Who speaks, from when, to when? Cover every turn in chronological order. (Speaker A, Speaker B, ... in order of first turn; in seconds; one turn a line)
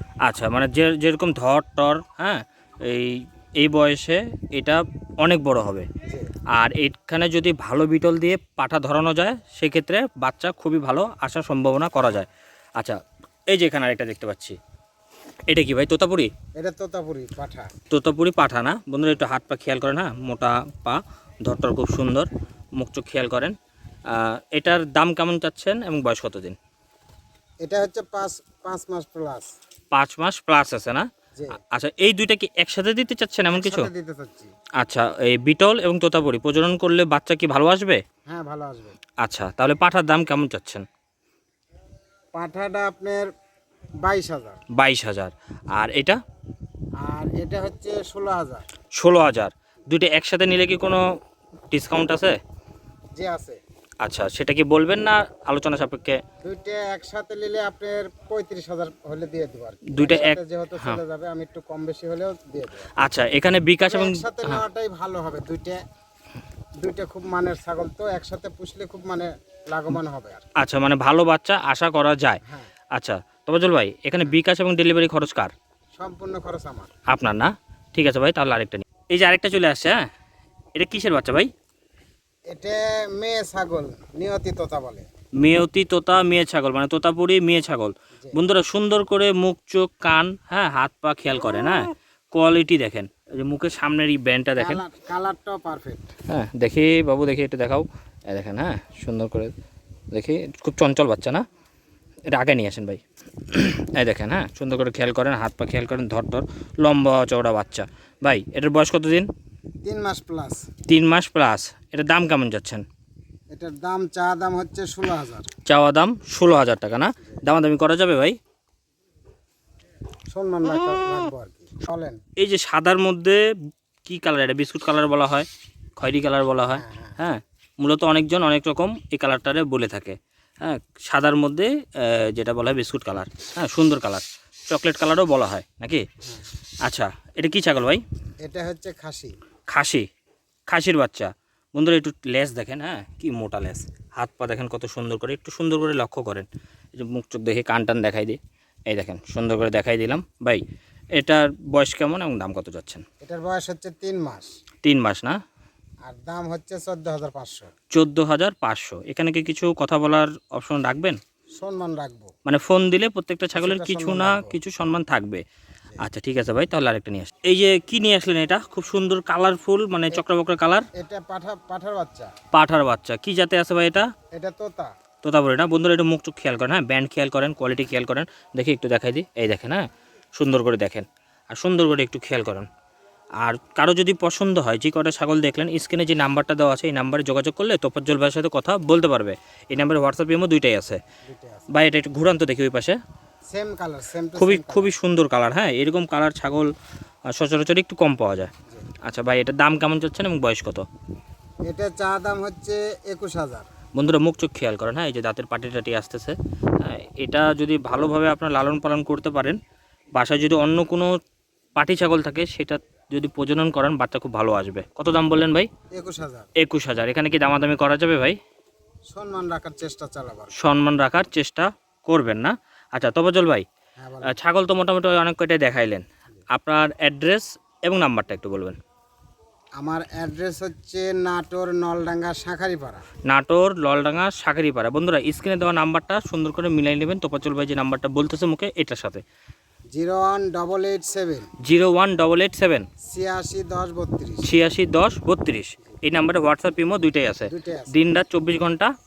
Speaker A: 0.2-5.9
Speaker B: 6.0-6.3
Speaker A: 6.5-13.0
Speaker A: 13.5-14.6
Speaker A: 15.5-16.3
Speaker B: 16.6-17.7
Speaker A: 17.9-23.6
Speaker A: 24.1-26.6
Speaker B: 27.6-29.5
Speaker A: 29.9-31.1
Speaker A: 31.7-33.9
Speaker B: 33.5-34.5
Speaker A: 34.8-38.0
Speaker B: 38.3-39.0
Speaker A: 39.2-40.9
Speaker B: 42.4-43.3
Speaker B: 44.0-44.6
Speaker A: 44.8-46.2
Speaker B: 47.0-48.7
Speaker A: 49.0-51.0
Speaker A: 51.7-52.4
Speaker B: 53.1-53.6
Speaker A: 54.0-56.2
Speaker B: 56.4-62.9
Speaker A: 59.9-61.0
Speaker A: 63.0-64.6
Speaker B: 63.9-65.8
Speaker B: 66.8-70.5
Speaker A: 70.6-72.4
Speaker B: 72.4-72.7
Speaker A: 72.9-75.5
Speaker B: 76.0-76.9
Speaker A: 77.1-80.1
Speaker A: 80.8-81.5
Speaker B: 82.5-85.1
Speaker A: 85.4-94.8
Speaker B: 94.6-96.1
Speaker A: 96.3-99.5
Speaker A: 100.1-101.5
Speaker A: 102.3-109.3
Speaker B: 109.8-110.7
Speaker A: 110.9-112.8
Speaker B: 113.5-115.5
Speaker A: 115.7-118.4
Speaker B: 120.3-122.2
Speaker A: 122.4-123.4
Speaker A: 124.0-136.1
Speaker B: 126.7-127.2
Speaker A: 136.8-138.0
Speaker B: 138.4-139.4
Speaker A: 139.7-140.1
Speaker A: 140.7-148.4
Speaker A: 148.9-150.6
Speaker A: 151.2-153.0
Speaker B: 153.2-154.5
Speaker A: 154.8-155.4
Speaker B: 156.1-157.7
Speaker A: 157.9-161.2
Speaker B: 161.6-162.3
Speaker A: 162.5-165.4
Speaker B: 163.6-164.6
Speaker A: 166.0-170.9
Speaker B: 170.9-172.3
Speaker A: 172.5-174.1
Speaker B: 174.3-174.9
Speaker A: 175.2-182.7
Speaker A: 183.4-191.0
Speaker B: 191.3-191.7
Speaker A: 191.7-193.0
Speaker B: 193.5-194.9
Speaker A: 194.4-196.7
Speaker A: 197.3-198.5
Speaker A: 199.0-200.9
Speaker B: 201.7-203.7
Speaker A: 203.9-209.6
Speaker A: 210.2-211.2
Speaker A: 211.8-215.7
Speaker B: 215.9-216.5
Speaker A: 216.6-218.4
Speaker B: 219.1-220.5
Speaker A: 220.6-223.7
Speaker B: 224.0-224.4
Speaker A: 224.2-228.8
Speaker B: 229.8-233.0
Speaker A: 233.3-239.2
Speaker B: 239.9-241.5
Speaker A: 241.6-242.9
Speaker B: 243.0-244.5
Speaker A: 244.4-248.9
Speaker B: 247.5-247.9